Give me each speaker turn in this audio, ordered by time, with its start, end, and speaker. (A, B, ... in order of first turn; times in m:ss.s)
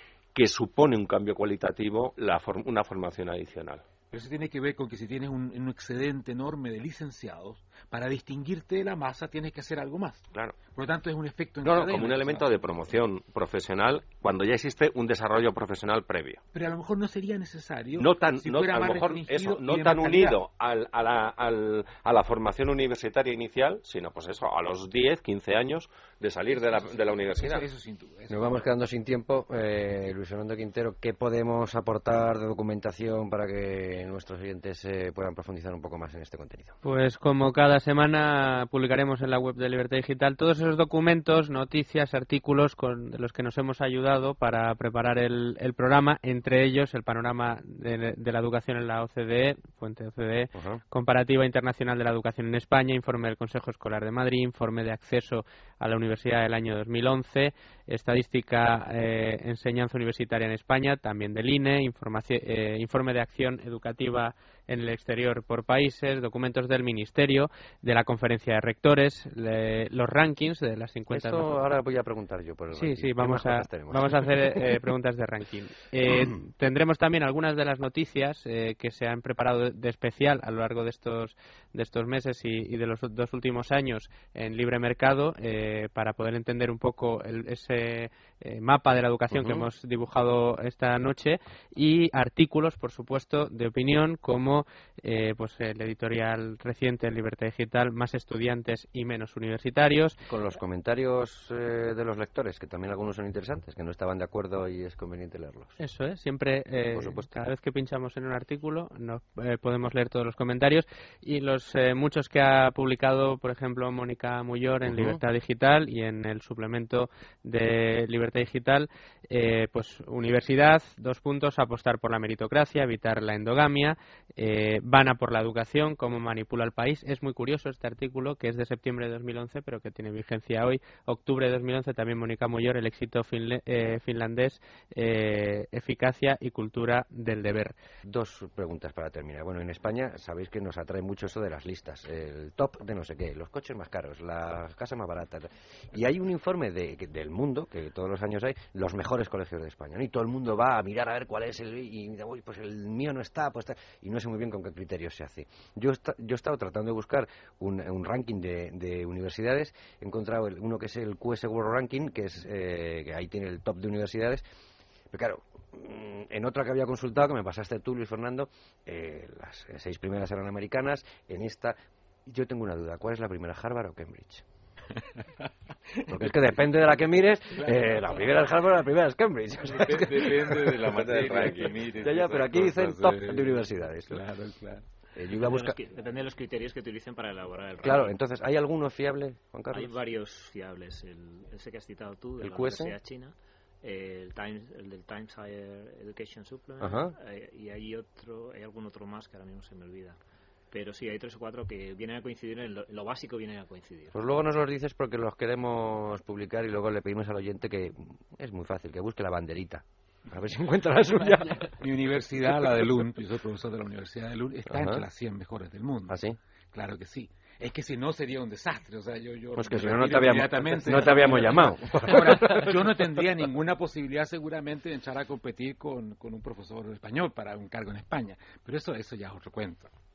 0:00.3-0:03.8 A
0:04.1-0:10.2 B
0:10.8-0:12.5 B
0:11.6-0:16.4 A
0:16.5-0:20.4 B
0:18.0-0:27.7 A
0:26.6-0:28.7 B
0:28.3-0:36.8 C
0:36.8-1:11.6 D
0:50.5-0:50.8 C
1:11.1-1:14.8 C
1:12.7-1:40.2 D
1:29.3-1:29.7 C
1:40.2-1:45.8 C
1:45.8-2:17.8 D
1:46.9-1:47.4 C
1:54.8-1:55.2 C
2:18.0-2:44.5 C
2:45.1-2:54.4 C
2:56.1-3:04.2 C
2:57.6-2:58.0 B
2:59.7-3:04.8 B
3:05.2-3:05.8 C
3:05.4-3:08.1 E
3:07.8-3:10.0 C
3:09.7-3:20.2 E
3:12.4-3:13.0 C
3:16.8-3:17.2 C
3:20.7-3:24.1 E
3:24.1-3:31.8 C
3:31.7-3:36.2 B
3:32.5-3:32.9 C
3:34.7-3:35.1 C
3:36.1-3:36.4 C
3:36.7-3:49.9 B
3:39.6-3:43.0 C